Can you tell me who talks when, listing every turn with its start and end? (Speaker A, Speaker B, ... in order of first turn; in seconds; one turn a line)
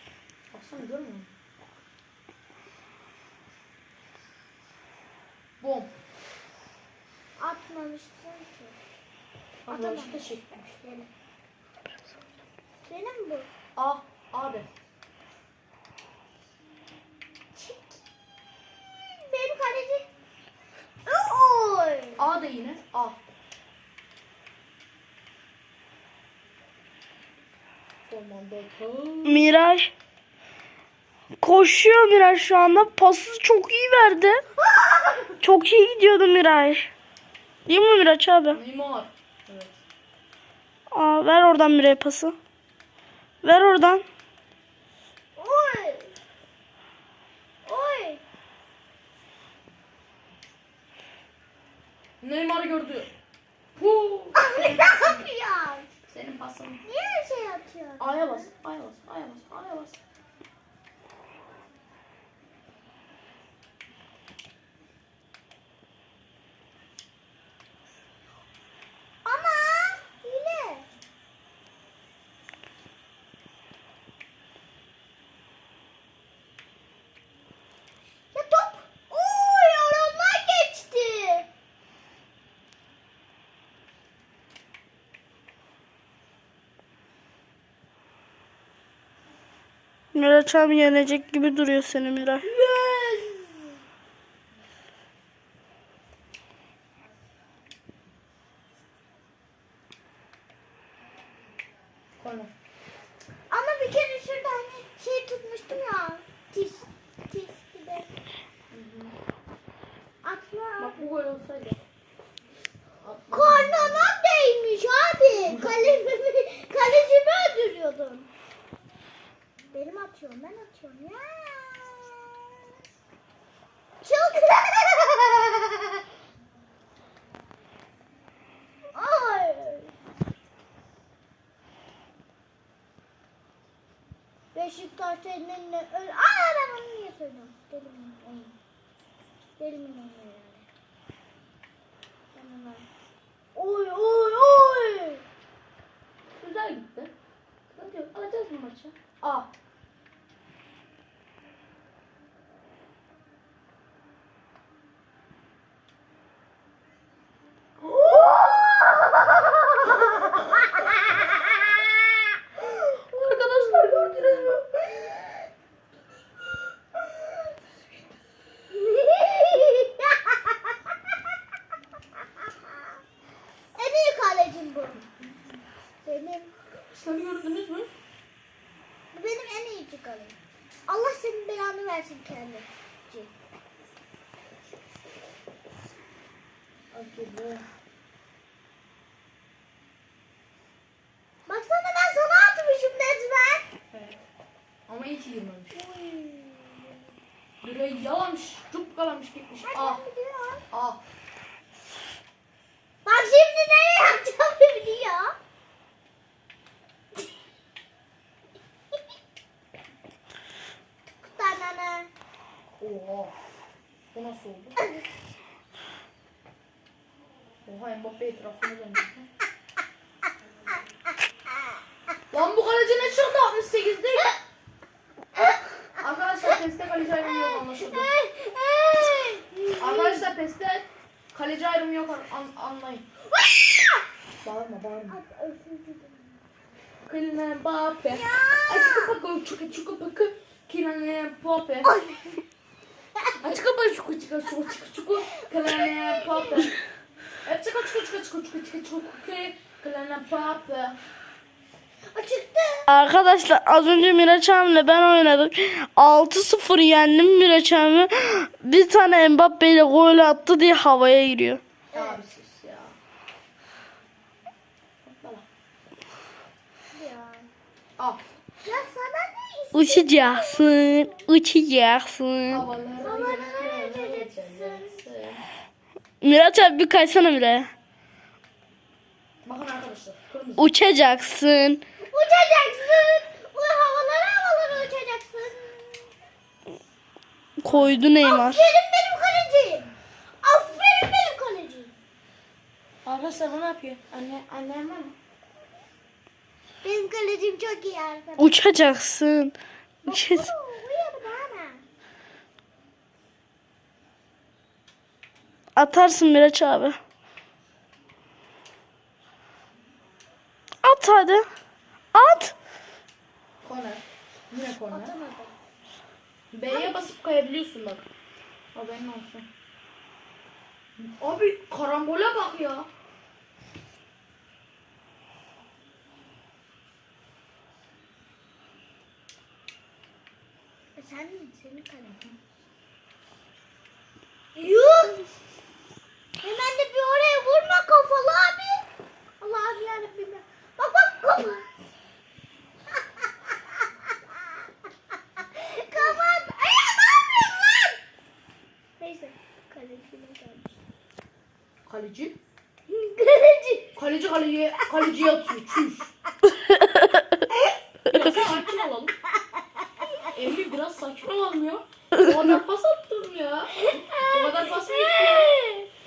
Speaker A: 0.5-1.3
Speaker A: 5.6-5.9
Speaker B: 7.4-8.8
Speaker A: 9.7-10.8
Speaker B: 9.7-11.1
Speaker B: 12.9-13.5
Speaker A: 13.7-14.7
Speaker B: 17.5-18.0
Speaker B: 19.1-20.1
Speaker B: 21.1-22.2
Speaker A: 22.2-23.2
Speaker A: 28.1-29.5
Speaker C: 29.2-29.9
Speaker C: 31.4-34.4
Speaker A: 34.7-35.3
Speaker C: 35.4-36.9
Speaker C: 37.7-38.6
Speaker A: 38.5-39.8
Speaker C: 40.9-42.3
Speaker C: 43.4-44.0
Speaker B: 45.4-46.1
Speaker B: 47.6-48.2
Speaker A: 52.2-53.1
Speaker A: 53.8-55.2
Speaker B: 54.4-55.9
Speaker A: 56.1-56.8
Speaker B: 56.9-58.5
Speaker A: 58.0-60.0
Speaker B: 69.2-70.9
Speaker B: 78.3-81.5
Speaker C: 90.1-92.5
Speaker A: 92.4-93.6
Speaker A: 102.2-102.5
Speaker B: 103.5-108.1
Speaker A: 108.7-109.1
Speaker B: 110.2-111.1
Speaker A: 110.8-111.8
Speaker A: 113.0-114.1
Speaker B: 113.3-118.3
Speaker A: 115.5-116.0
Speaker B: 119.7-122.6
Speaker B: 124.0-126.0
Speaker B: 128.9-129.9
Speaker B: 134.5-138.5
Speaker B: 139.6-140.6
Speaker B: 142.3-142.8
Speaker B: 143.6-145.2
Speaker A: 143.6-144.7
Speaker A: 146.4-147.1
Speaker A: 147.7-149.5
Speaker A: 157.8-158.7
Speaker A: 163.1-164.8
Speaker B: 168.7-170.6
Speaker B: 173.8-175.0
Speaker B: 176.0-176.5
Speaker A: 176.8-177.9
Speaker B: 179.1-180.3
Speaker B: 180.9-183.3
Speaker A: 186.9-187.7
Speaker B: 191.4-193.7
Speaker A: 193.9-194.2
Speaker A: 194.9-195.7
Speaker B: 195.7-197.0
Speaker A: 197.6-200.0
Speaker B: 199.7-200.6
Speaker A: 200.7-201.0
Speaker B: 203.0-205.3
Speaker B: 211.2-212.1
Speaker A: 212.8-213.3
Speaker A: 214.1-214.8
Speaker A: 217.6-219.3
Speaker A: 222.3-224.3
Speaker A: 226.0-228.1
Speaker B: 227.3-230.3
Speaker A: 229.8-233.0
Speaker A: 234.4-235.2
Speaker B: 235.1-236.4
Speaker A: 237.1-241.9
Speaker B: 238.1-239.1
Speaker B: 241.9-242.3
Speaker A: 243.4-246.7
Speaker B: 245.4-246.7
Speaker A: 247.4-250.9
Speaker B: 252.1-252.9
Speaker C: 252.9-261.6
Speaker B: 261.9-262.2
Speaker A: 261.9-263.0
Speaker A: 265.0-265.4
Speaker B: 266.9-267.5
Speaker B: 268.6-271.3
Speaker C: 269.7-272.6
Speaker A: 272.5-275.4
Speaker B: 273.0-275.0
Speaker C: 276.2-277.7
Speaker A: 279.4-280.7
Speaker C: 280.6-281.8
Speaker B: 282.0-286.1
Speaker C: 287.6-288.6
Speaker A: 287.6-288.0
Speaker B: 288.2-291.9
Speaker A: 293.0-295.1
Speaker B: 296.8-298.9
Speaker C: 298.4-299.5
Speaker B: 300.0-301.8
Speaker C: 300.1-300.5
Speaker C: 305.8-307.0
Speaker C: 310.8-311.4
Speaker C: 312.1-312.5
Speaker A: 313.6-315.1
Speaker B: 314.9-315.5
Speaker A: 316.5-318.0
Speaker B: 316.7-317.1
Speaker A: 318.7-319.5
Speaker A: 321.0-322.9
Speaker B: 330.9-332.4
Speaker B: 334.5-335.3
Speaker B: 336.4-338.8
Speaker B: 339.4-341.6
Speaker B: 345.5-347.9
Speaker B: 349.0-350.8
Speaker A: 351.8-352.4
Speaker B: 352.9-353.9
Speaker A: 353.9-356.1
Speaker C: 356.7-357.2
Speaker A: 358.0-359.1
Speaker A: 360.3-365.6
Speaker B: 363.8-365.9